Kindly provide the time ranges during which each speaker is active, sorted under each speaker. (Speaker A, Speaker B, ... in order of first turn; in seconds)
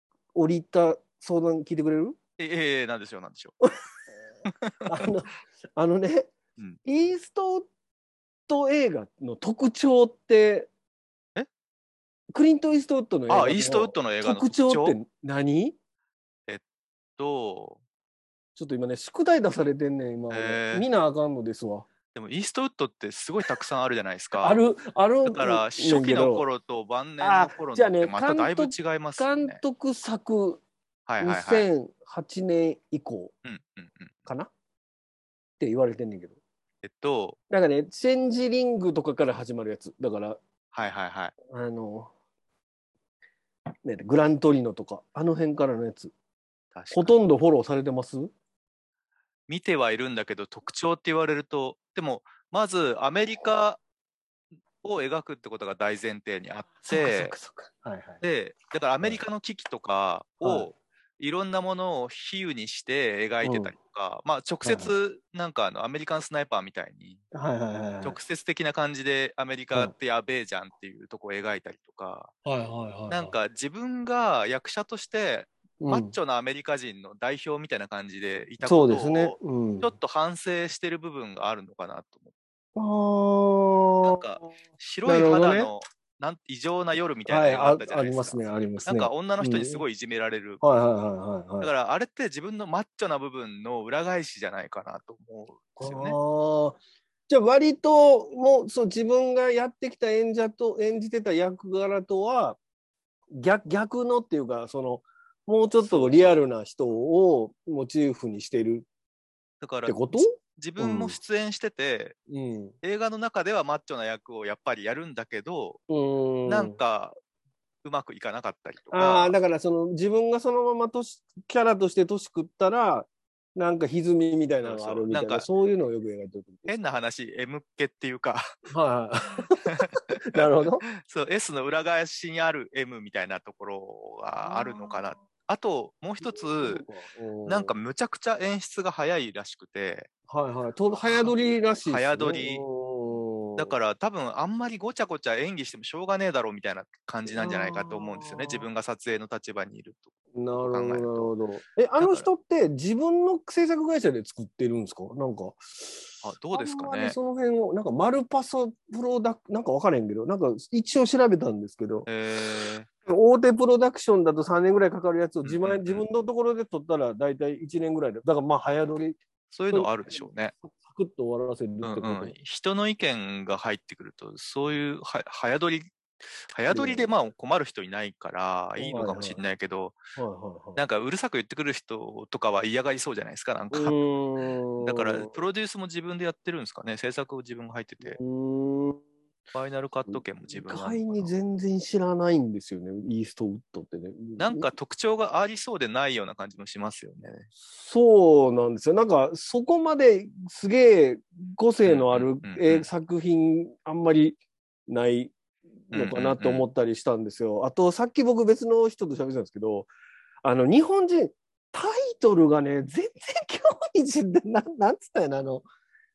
Speaker A: 0.3-2.2, 4.9-6.3, 6.9-7.7, 8.5-10.7, 12.3-15.8, 18.6-21.9, 24.4-26.5, 27.2-30.6, 31.2-33.3, 35.6-36.4, 37.5-40.4, 41.5-42.1, 43.8-46.1, 46.9-48.3, 56.9-58.2, 60.4-60.7, 63.4-63.7, 64.6-64.9, 67.3-68.2, 72.5-73.3, 75.8-76.1, 78.6-79.9, 82.8-84.5, 85.0-85.7, 87.3-89.8, 90.6-91.7, 95.8-102.6, 103.3-108.9, 109.9-111.2, 112.3-112.8, 115.9-116.8, 118.9-126.8, 128.7-130.9, 134.4-135.2, 136.2-137.8, 140.3-143.7, 147.3-148.7, 150.3-162.1, 163.1-169.2, 169.7-172.3, 176.7-177.1, 178.8-179.4, 180.2-180.8, 183.7-185.3, 188.0-189.0, 190.1-194.7, 197.7-205.3, 205.9-209.9, 210.4-215.7
Speaker B: 2.4-3.5, 4.5-4.9, 13.3-15.0, 17.2-17.8, 20.3-20.9, 22.1-24.6, 25.2-29.6, 31.1-31.7, 33.5-34.1, 36.8-37.4, 40.7-41.3, 46.7-47.2, 49.5-53.8, 54.8-57.4, 58.2-67.2, 68.0-72.3, 73.1-82.3, 84.0-90.6, 91.6-96.2, 105.8-106.4, 109.6-112.2, 112.8-115.8, 116.5-117.2, 117.8-119.3, 124.6-125.5, 126.7-128.5, 129.4-130.4, 131.0-136.8, 137.5-140.1, 141.0-142.6, 143.6-151.3, 152.0-152.3, 156.2-157.2, 162.1-162.9, 165.4-166.1, 169.5-170.5, 171.8-180.0, 180.8-184.0, 184.8-188.2, 189.5-191.3, 194.4-197.5, 201.9-202.9, 205.9-206.7